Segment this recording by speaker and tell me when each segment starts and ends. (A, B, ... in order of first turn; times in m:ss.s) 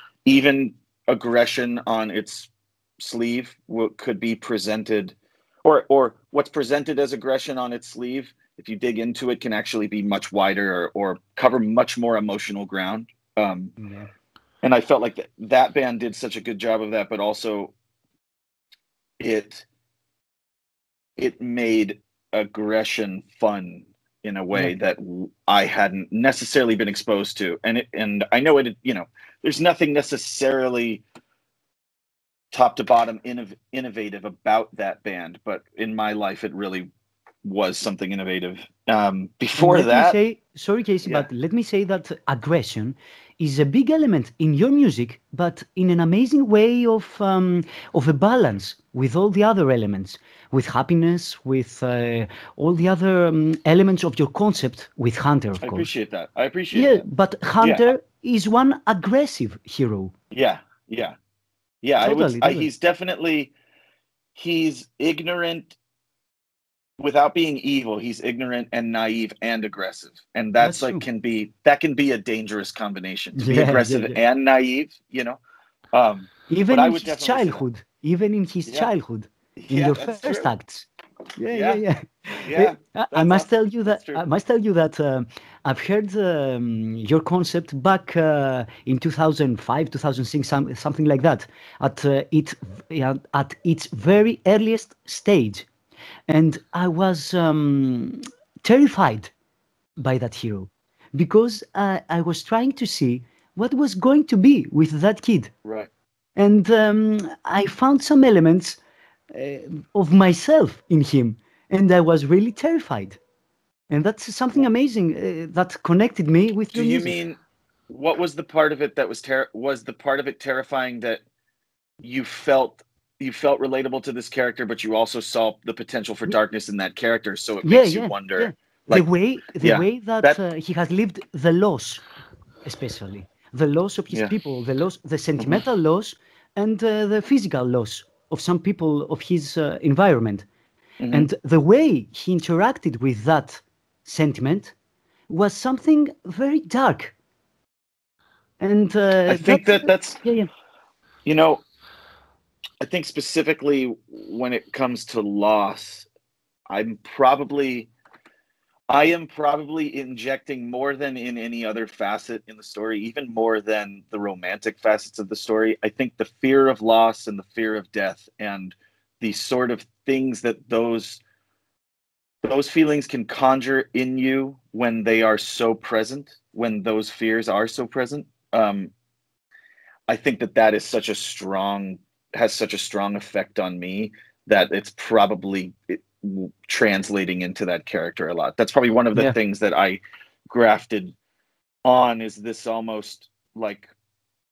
0:00.2-0:13.7 A
0:13.8-0:14.1 B
0:14.6-0:17.7 A
0:19.2-0:19.6 A
0:21.2-0:31.0 A
0:32.5-0:36.9 A
0:37.4-0:40.2 A
0:39.6-0:55.9 B
0:55.6-0:57.0 A
0:56.7-1:00.1 B
0:57.6-0:57.8 A
1:00.3-1:01.1 A
1:01.8-1:03.5 A
1:02.0-1:02.7 B
1:04.3-1:05.7 A
1:07.0-1:15.4 A
1:10.6-1:11.0 B
1:13.3-1:14.2 B
1:15.9-1:17.6 A
1:16.5-1:35.6 B
1:19.6-1:20.5 A
1:21.5-1:21.8 A
1:22.4-1:24.2 A
1:36.3-1:39.3 B
1:40.0-1:45.5 B
1:45.6-1:45.9 A
1:46.4-1:48.8 B
1:49.3-1:53.2 B
1:53.9-1:57.2 B
1:56.7-1:57.4 A
1:57.9-2:01.2 A
2:02.0-2:09.0 A
2:07.6-2:12.0 B
2:09.6-2:10.4 A
2:12.6-2:20.4 B
2:21.0-2:21.3 A
2:21.1-2:24.7 B
2:25.3-2:27.1 B
2:28.6-2:30.5 B
2:29.3-2:30.2 A
2:31.2-2:31.6 A
2:32.8-2:36.0 A
2:36.7-2:37.9 A
2:38.9-2:51.2 A
2:52.4-2:58.9 A
3:00.1-3:11.1 A
3:11.8-3:13.9 A